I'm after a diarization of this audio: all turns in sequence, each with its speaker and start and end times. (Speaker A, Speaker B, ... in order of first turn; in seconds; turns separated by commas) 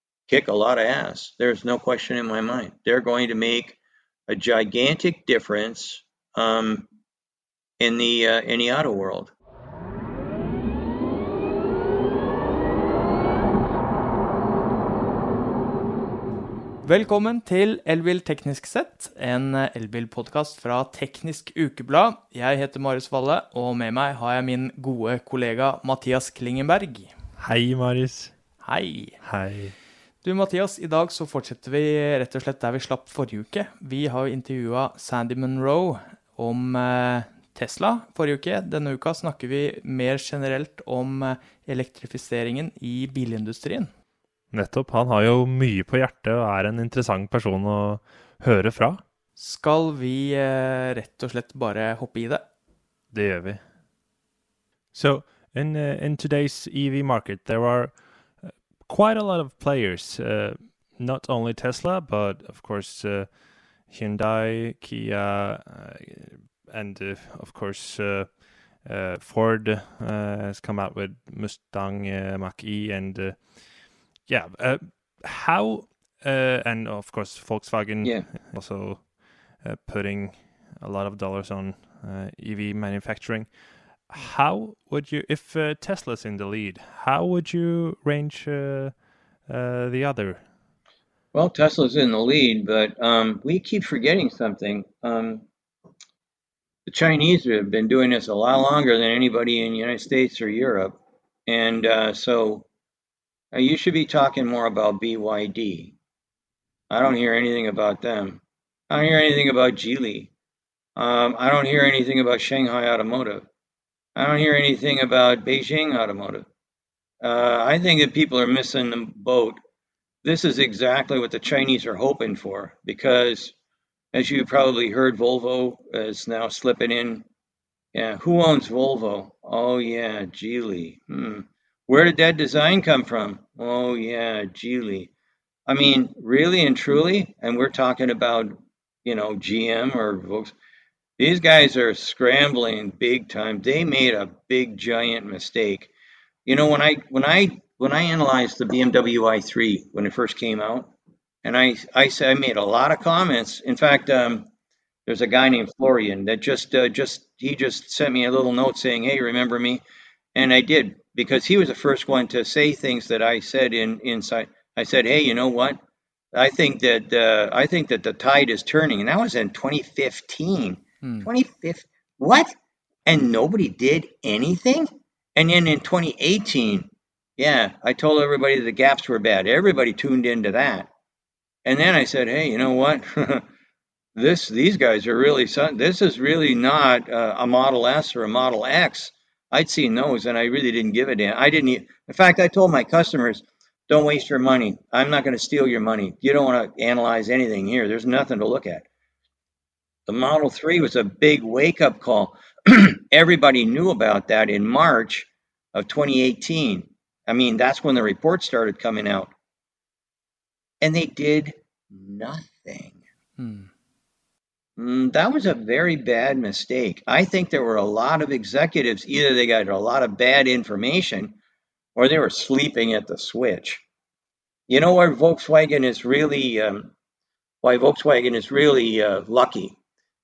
Speaker A: 0.3-3.8, Speaker A: 4.3-6.9, Speaker A: 7.8-9.3, Speaker B: 16.8-27.1, Speaker C: 27.4-28.6, Speaker B: 28.6-29.3, Speaker C: 29.2-29.8, Speaker B: 30.2-43.9, Speaker C: 44.5-49.0, Speaker B: 49.4-52.5, Speaker C: 53.1-53.7, Speaker C: 54.9-90.5, Speaker A: 78.0-78.3, Speaker A: 91.3-95.5, Speaker A: 96.9-102.7, Speaker A: 103.5-106.0, Speaker A: 106.9-110.3, Speaker A: 111.0-113.5, Speaker A: 114.2-116.5, Speaker A: 117.2-119.6, Speaker A: 120.2-123.5, Speaker A: 124.1-127.2, Speaker A: 127.9-135.1, Speaker A: 135.7-140.6, Speaker A: 141.2-145.9, Speaker A: 146.5-150.9, Speaker A: 151.4-154.5, Speaker A: 155.1-159.8, Speaker A: 160.3-165.8, Speaker A: 166.3-172.5, Speaker A: 173.1-180.9, Speaker A: 181.7-183.4, Speaker A: 184.2-198.9, Speaker A: 200.1-209.3, Speaker A: 210.8-213.0, Speaker B: 213.4-213.7, Speaker A: 214.8-221.4, Speaker A: 222.0-223.8, Speaker A: 224.7-226.9, Speaker A: 227.6-229.8